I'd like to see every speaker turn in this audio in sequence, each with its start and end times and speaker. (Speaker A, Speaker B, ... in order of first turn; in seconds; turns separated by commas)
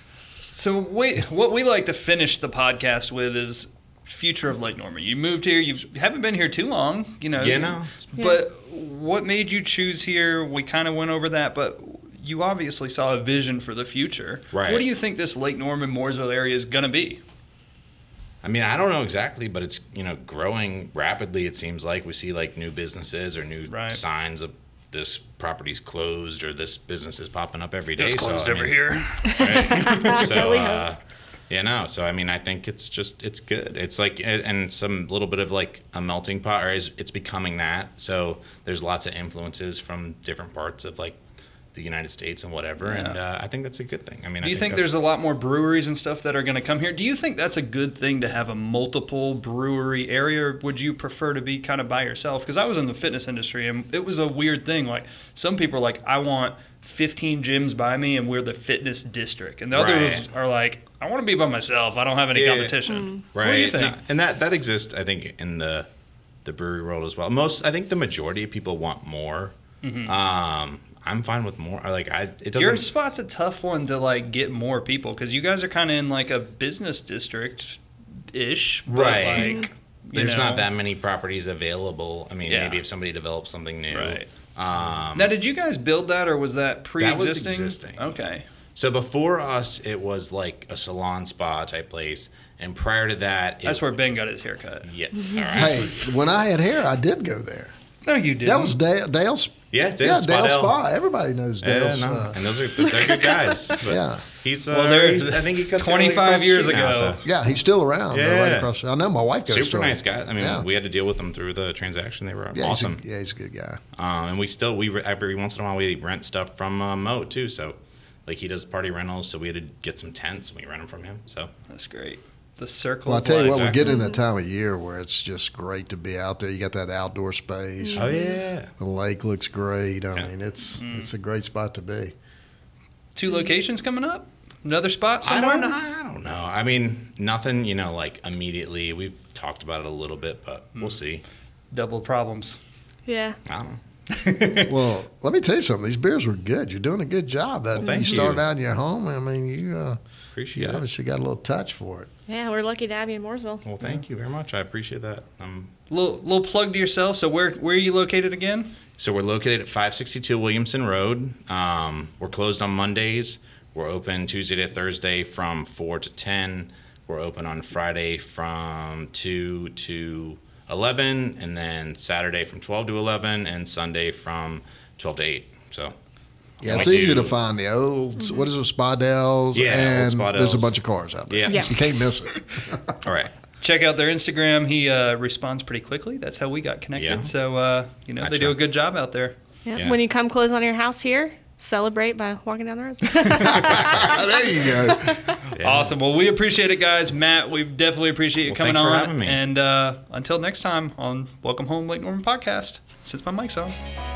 Speaker A: 0.5-17.2, Speaker B: 7.4-8.0, Speaker C: 8.2-8.4, Speaker B: 14.5-14.9, Speaker B: 18.4-31.0, Speaker A: 23.7-24.0, Speaker A: 28.0-30.3, Speaker C: 29.4-30.8, Speaker B: 31.5-41.2, Speaker B: 41.7-44.9, Speaker A: 42.8-43.2, Speaker A: 44.4-64.0, Speaker B: 59.7-60.3, Speaker B: 62.3-65.9, Speaker C: 62.9-63.2, Speaker B: 66.4-72.9, Speaker A: 69.8-70.1, Speaker A: 72.5-77.8, Speaker A: 78.3-80.7, Speaker B: 78.9-85.3, Speaker C: 79.4-79.7, Speaker A: 82.5-82.8, Speaker A: 83.9-84.3, Speaker A: 85.1-88.4, Speaker B: 87.0-88.1, Speaker B: 88.8-93.9, Speaker A: 93.6-94.9, Speaker B: 94.8-95.9, Speaker C: 95.3-95.5, Speaker D: 95.5-97.7, Speaker A: 98.0-98.8, Speaker D: 98.4-102.4, Speaker B: 99.7-100.8, Speaker B: 101.6-107.2, Speaker D: 103.8-104.2, Speaker A: 104.7-107.2, Speaker D: 107.2-110.7, Speaker B: 108.1-108.7, Speaker B: 109.5-113.0, Speaker D: 112.5-113.8, Speaker B: 114.0-121.5, Speaker A: 121.7-123.8, Speaker D: 123.0-128.2, Speaker B: 123.5-123.9, Speaker C: 123.8-124.2, Speaker C: 127.8-128.3, Speaker B: 127.9-128.7, Speaker D: 128.8-132.1, Speaker A: 130.7-131.1, Speaker A: 133.1-135.8, Speaker C: 133.3-133.5, Speaker B: 135.2-141.2, Speaker A: 141.7-142.6, Speaker C: 143.1-143.4, Speaker B: 143.4-143.8, Speaker A: 144.1-144.7, Speaker D: 144.6-150.0, Speaker B: 147.8-148.4, Speaker C: 147.8-148.2, Speaker B: 150.3-150.8, Speaker D: 150.5-152.1, Speaker C: 152.3-153.6, Speaker B: 153.6-155.7, Speaker A: 155.9-158.7, Speaker B: 159.0-175.9, Speaker B: 176.6-177.3, Speaker D: 176.6-182.9, Speaker C: 178.2-178.5, Speaker B: 179.5-180.8, Speaker B: 181.3-181.8, Speaker C: 181.5-181.7, Speaker B: 183.0-183.3, Speaker A: 183.6-189.3, Speaker B: 186.9-187.3, Speaker B: 188.2-188.6, Speaker C: 189.6-195.4, Speaker D: 193.4-195.2, Speaker B: 193.5-194.2, Speaker B: 195.5-195.9, Speaker A: 195.6-203.8, Speaker B: 198.4-199.4